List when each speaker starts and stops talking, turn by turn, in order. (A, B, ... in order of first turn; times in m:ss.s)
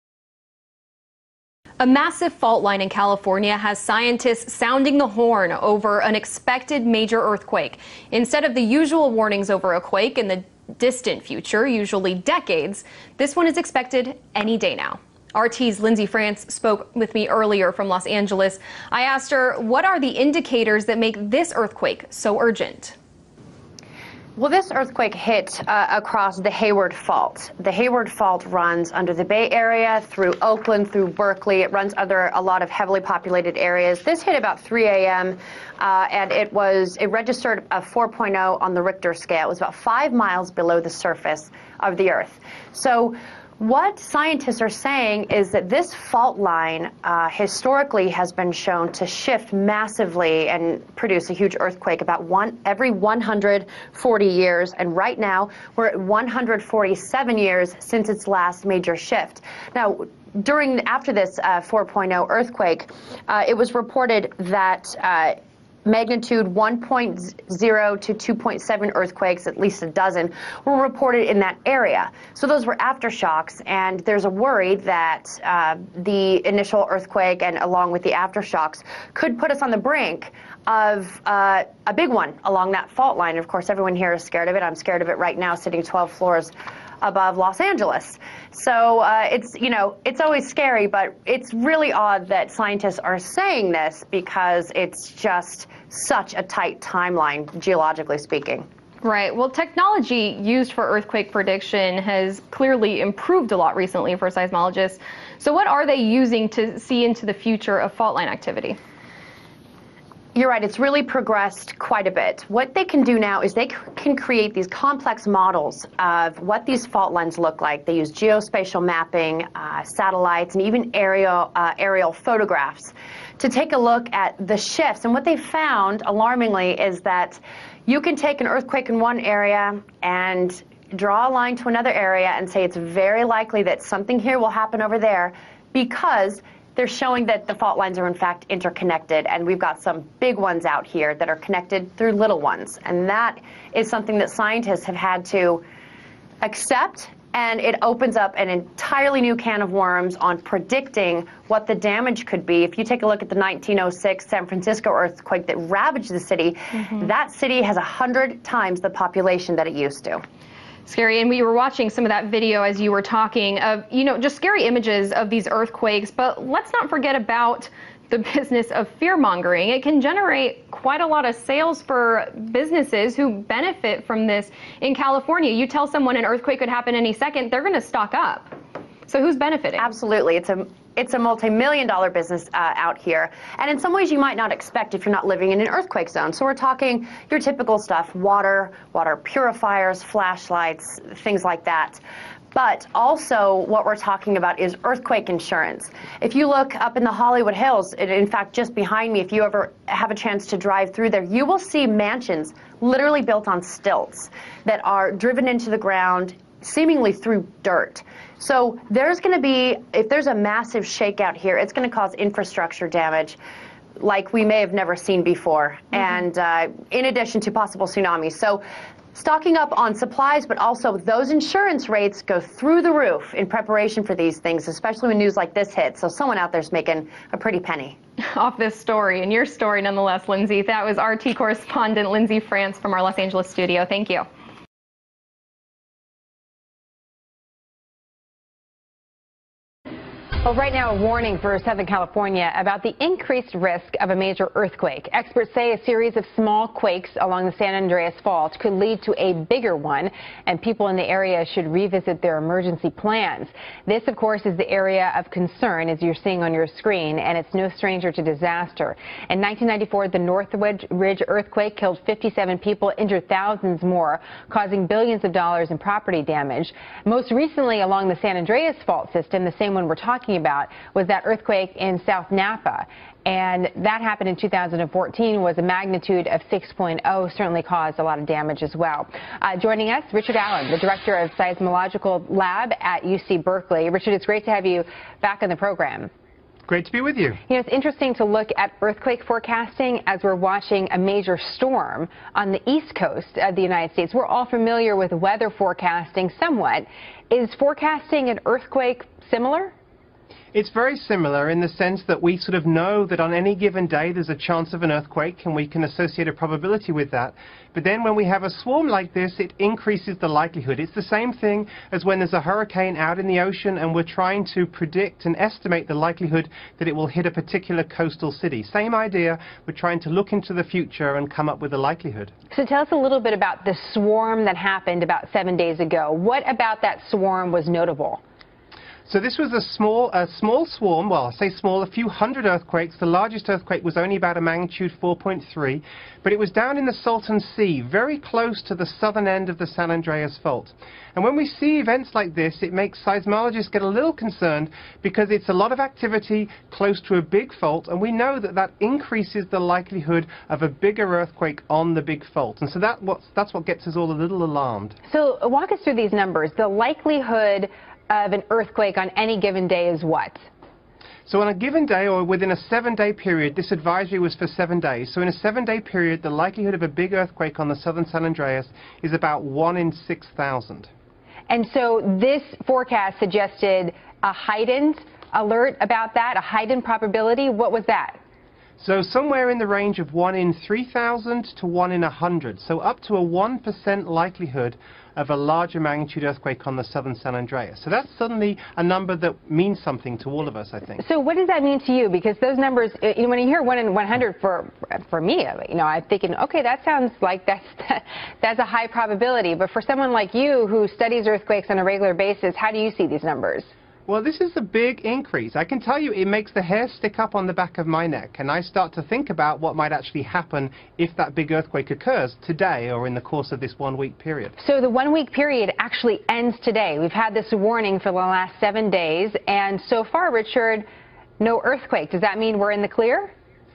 0:01.8-0:23.0 A
0:24.4-1:38.7 B
1:39.0-1:48.8 A
1:50.4-2:25.6 B
2:26.4-2:40.2 B
2:40.9-2:58.5 A
2:59.1-2:59.9 A
2:59.8-3:12.0 B
3:12.5-3:33.4 B
3:34.0-3:38.6 B
3:39.2-3:48.0 B
3:48.4-3:54.3 A
4:00.4-4:46.1 C
4:46.7-4:47.4 D
4:47.5-4:59.7 C
5:00.5-5:22.3 D
5:22.5-5:28.2 C
5:29.1-5:55.0 D
5:55.1-6:00.5 C
6:01.3-6:10.9 D
6:11.5-6:18.2 C
6:18.8-6:31.0 D
6:31.0-6:43.7 C
6:44.1-6:54.6 D
6:54.6-7:00.9 C
7:01.4-7:03.3 C